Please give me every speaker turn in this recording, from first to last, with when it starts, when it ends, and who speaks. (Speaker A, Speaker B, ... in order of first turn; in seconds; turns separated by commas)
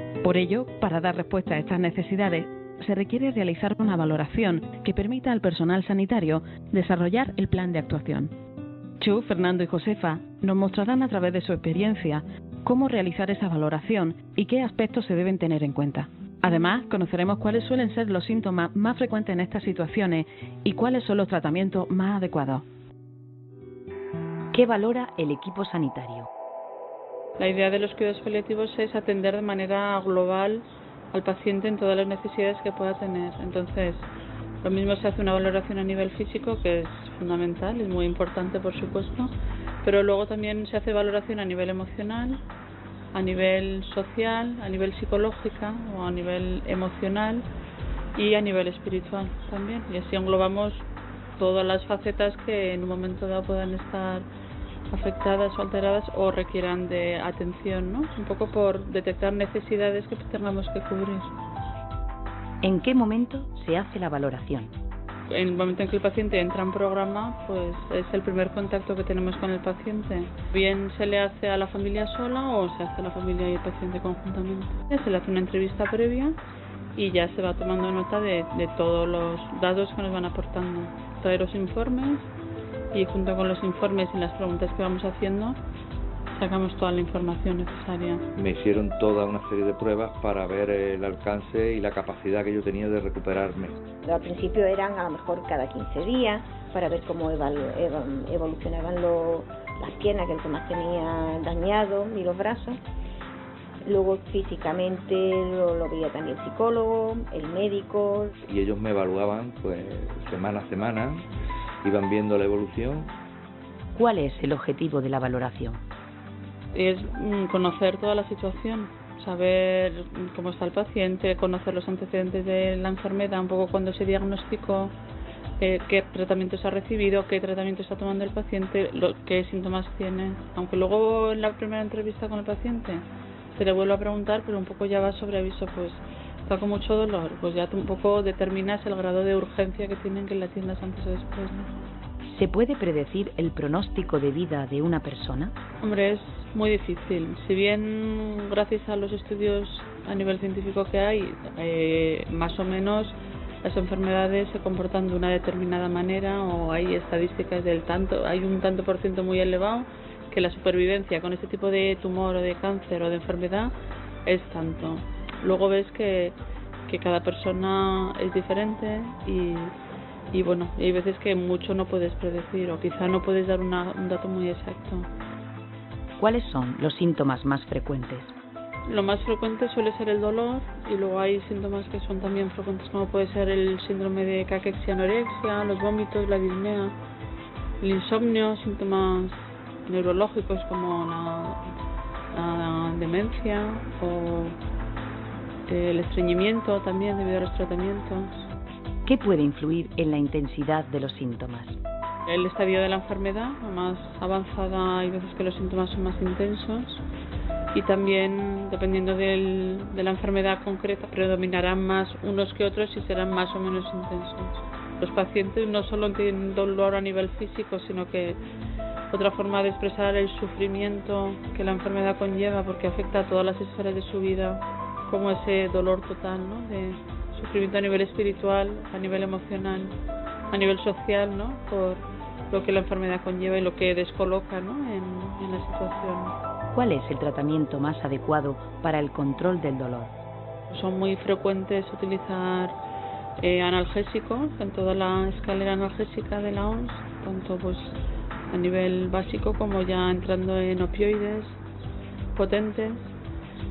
Speaker A: 0.2-8.3, Speaker A: 9.0-22.6, Speaker B: 24.5-26.3, Speaker C: 27.4-34.1, Speaker C: 34.6-42.4, Speaker C: 43.1-47.5, Speaker C: 48.1-50.8, Speaker C: 51.4-54.2, Speaker C: 54.9-61.3, Speaker B: 62.6-64.7, Speaker C: 65.3-76.4, Speaker C: 76.9-82.2, Speaker C: 82.9-85.6, Speaker C: 86.3-88.2, Speaker D: 88.3-93.8, Speaker E: 94.0-102.8, Speaker E: 103.8-108.3, Speaker D: 108.5-111.2, Speaker D: 111.8-113.1, Speaker B: 113.9-115.8, Speaker C: 116.7-124.9, Speaker C: 125.6-141.7, Speaker B: 142.3-145.5, Speaker C: 145.8-163.7, Speaker C: 164.2-166.3, Speaker C: 166.9-169.7, Speaker C: 170.3-175.1, Speaker B: 176.2-178.3, Speaker C: 178.9-186.9, Speaker C: 187.8-191.7, Speaker C: 192.3-194.6, Speaker C: 195.7-198.5, Speaker B: 199.1-201.8, Speaker C: 202.3-207.0, Speaker C: 207.7-218.4, Speaker C: 219.1-229.9, Speaker C: 230.5-236.3, Speaker B: 236.7-240.1, Speaker C: 240.7-242.8, Speaker C: 243.4-248.0, Speaker C: 248.5-251.6, Speaker C: 252.3-253.1